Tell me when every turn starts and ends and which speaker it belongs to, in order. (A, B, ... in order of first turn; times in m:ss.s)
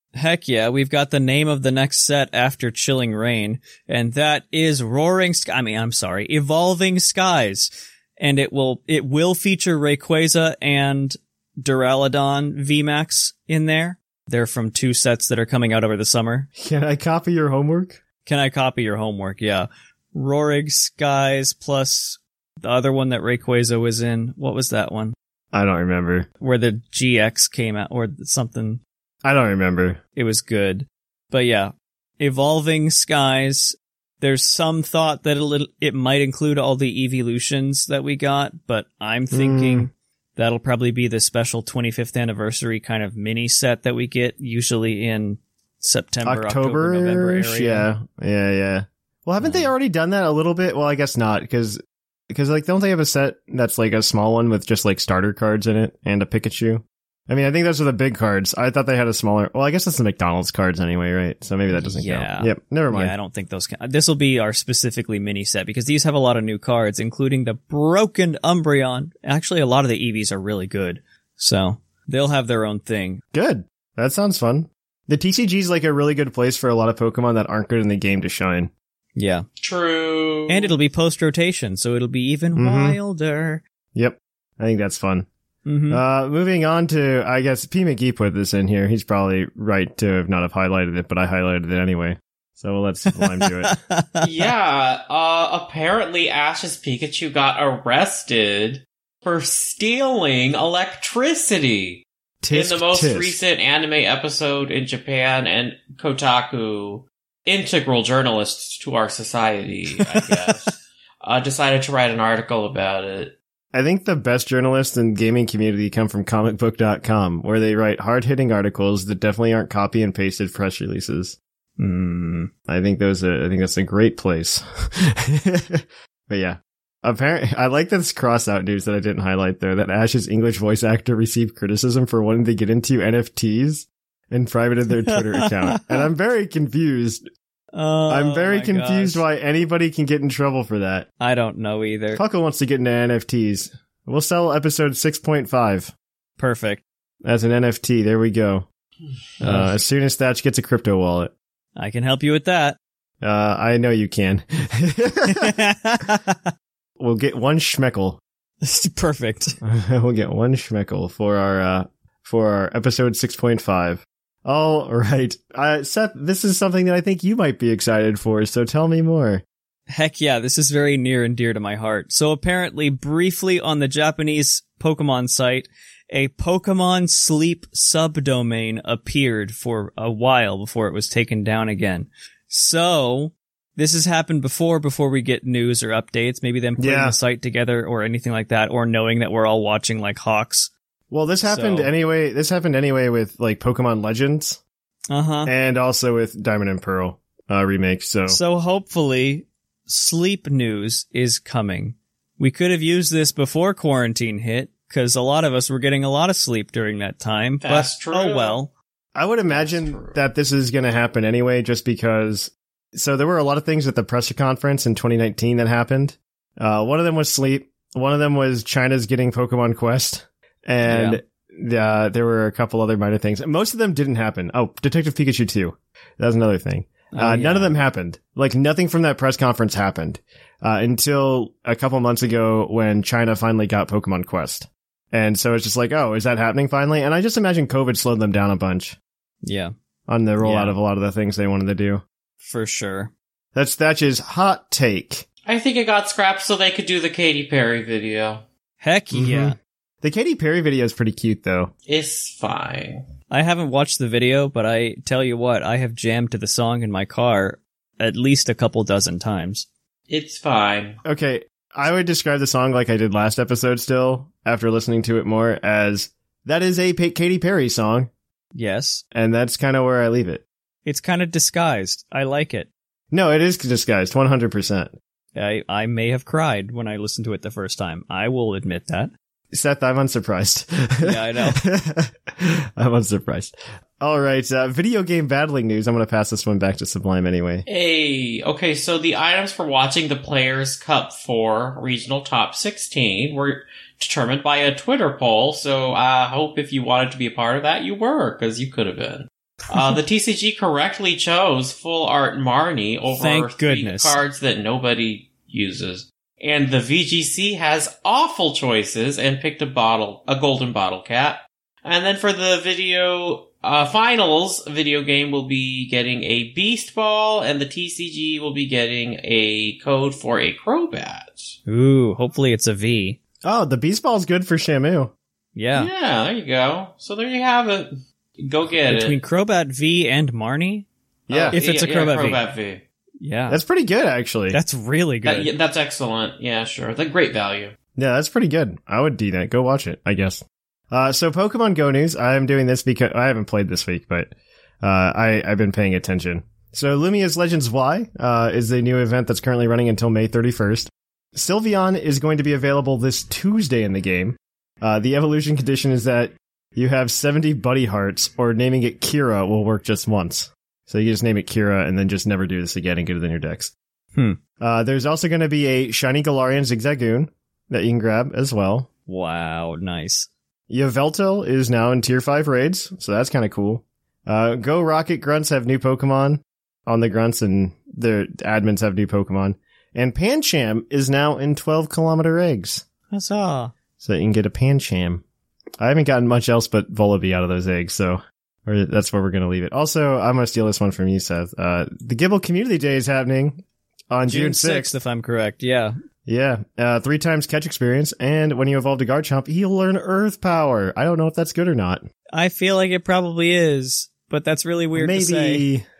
0:00.2-0:16.5 A
0:16.6-0:18.0 B
0:18.2-0:25.2 A
0:25.5-0:26.3 B
0:26.4-0:28.8 A
0:29.2-0:30.0 B
0:30.2-0:47.9 A
0:39.3-0:39.9 B
0:46.2-0:51.8 B
0:49.4-0:49.7 A
0:52.3-1:03.2 B
1:01.7-1:13.2 A
1:13.3-1:18.7 B
1:19.2-1:19.5 A
1:19.6-1:20.8 C
1:20.5-1:23.6 A
1:22.5-1:23.0 B
1:24.0-1:25.3 B
1:25.7-1:26.0 A
1:25.9-1:33.8 B
1:33.1-1:34.3 A
1:34.2-1:53.4 C
1:42.4-1:43.4 B
1:50.0-1:50.7 A
1:53.7-2:01.4 B
2:01.8-2:02.5 A
2:02.7-2:17.2 B
2:15.1-2:16.0 A
2:17.7-2:19.2 A
2:18.1-2:21.1 B
2:21.2-2:22.2 A
2:22.2-2:25.9 B
2:26.4-2:26.8 A
2:27.2-2:28.7 B
2:29.4-2:31.3 B
2:29.4-2:29.7 A
2:31.8-2:32.8 A
2:33.2-2:35.6 B
2:35.3-2:36.5 A
2:37.0-2:38.2 B
2:38.6-2:39.6 A
2:39.6-2:49.4 B
2:49.9-3:10.7 A
3:06.8-3:07.2 B
3:11.1-3:14.6 B
3:11.5-3:11.9 A
3:15.1-3:15.5 A
3:15.5-3:18.4 B
3:18.3-3:28.7 A
3:27.6-3:28.6 C
3:29.2-3:59.0 B
3:29.5-3:30.2 C
3:40.8-3:41.2 A
3:47.1-3:47.8 A
3:59.4-3:59.7 A
4:00.1-4:02.0 B
4:00.4-4:00.8 A
4:02.4-4:03.1 A
4:03.6-4:05.2 B
4:05.5-4:08.4 C
4:08.8-4:09.6 A
4:09.1-4:11.7 B
4:11.9-4:13.0 C
4:13.3-4:19.7 A
4:20.1-4:21.0 C
4:21.0-4:28.1 B
4:28.5-4:29.0 A
4:29.1-4:30.4 B
4:30.8-4:32.7 A
4:33.1-4:34.9 B
4:35.4-4:39.1 A
4:39.5-4:47.7 B
4:41.0-4:41.6 A
4:47.7-5:21.6 C
5:03.1-5:04.2 A
5:21.7-5:23.2 A
5:23.4-5:25.1 B
5:25.6-5:25.9 A
5:25.8-5:29.2 C
5:28.9-5:30.9 A
5:31.3-5:31.6 B
5:31.3-5:32.8 C
5:31.5-5:32.4 A
5:33.2-5:33.6 A
5:33.5-5:34.6 B
5:34.5-5:35.5 A
5:35.2-5:37.7 C
5:38.0-6:03.7 B
6:04.2-6:04.4 A
6:04.6-6:08.9 B
6:09.1-6:10.3 A
6:10.7-6:22.8 B
6:23.1-6:23.7 A
6:24.0-6:25.2 B
6:25.8-6:34.9 B
6:34.3-6:36.0 A
6:36.3-6:42.0 B
6:42.3-6:45.7 A
6:45.0-6:45.8 B